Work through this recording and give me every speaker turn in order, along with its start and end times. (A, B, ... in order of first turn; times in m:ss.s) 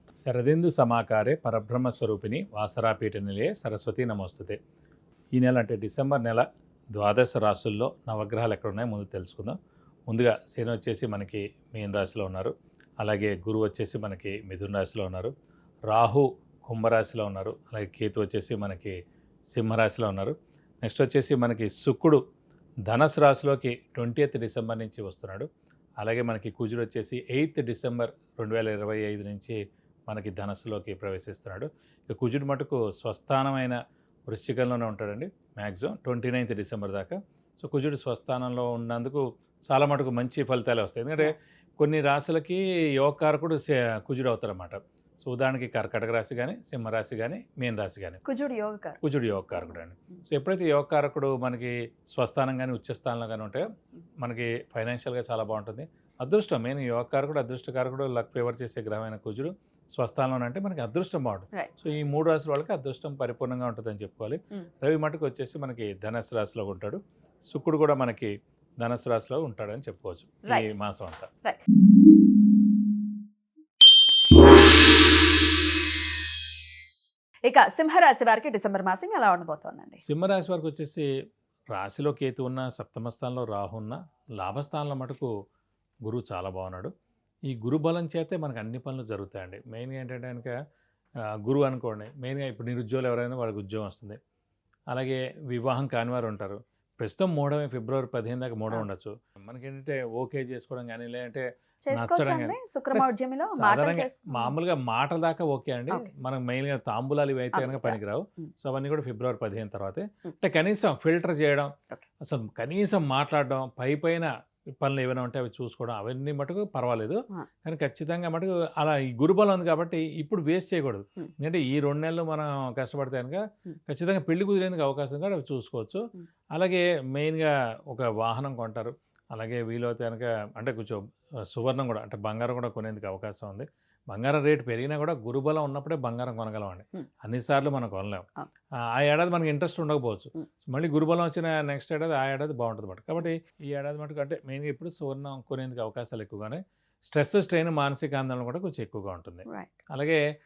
0:00.2-0:04.6 A
0:05.3-0:09.6 A
0:10.1-0:15.3 A
0:15.9-0:19.0 A
0:19.5-0:22.2 A
0:22.8-0:25.5 A
0:26.0-0:33.8 A
0:34.3-0:48.2 A
0:48.2-0:49.0 B
0:49.0-0:53.6 A
0:54.2-1:11.3 A
1:17.4-1:20.0 B
1:20.0-1:21.1 A
1:21.7-1:25.3 A
1:26.0-1:26.9 A
1:27.5-1:30.5 A
1:31.4-1:34.2 A
1:34.9-1:51.7 A
1:41.8-1:44.5 B
1:47.5-1:48.5 B
1:52.2-1:54.3 A
1:54.8-2:06.0 A
2:06.5-2:18.2 A
2:18.9-2:30.2 A
2:29.5-2:29.7 B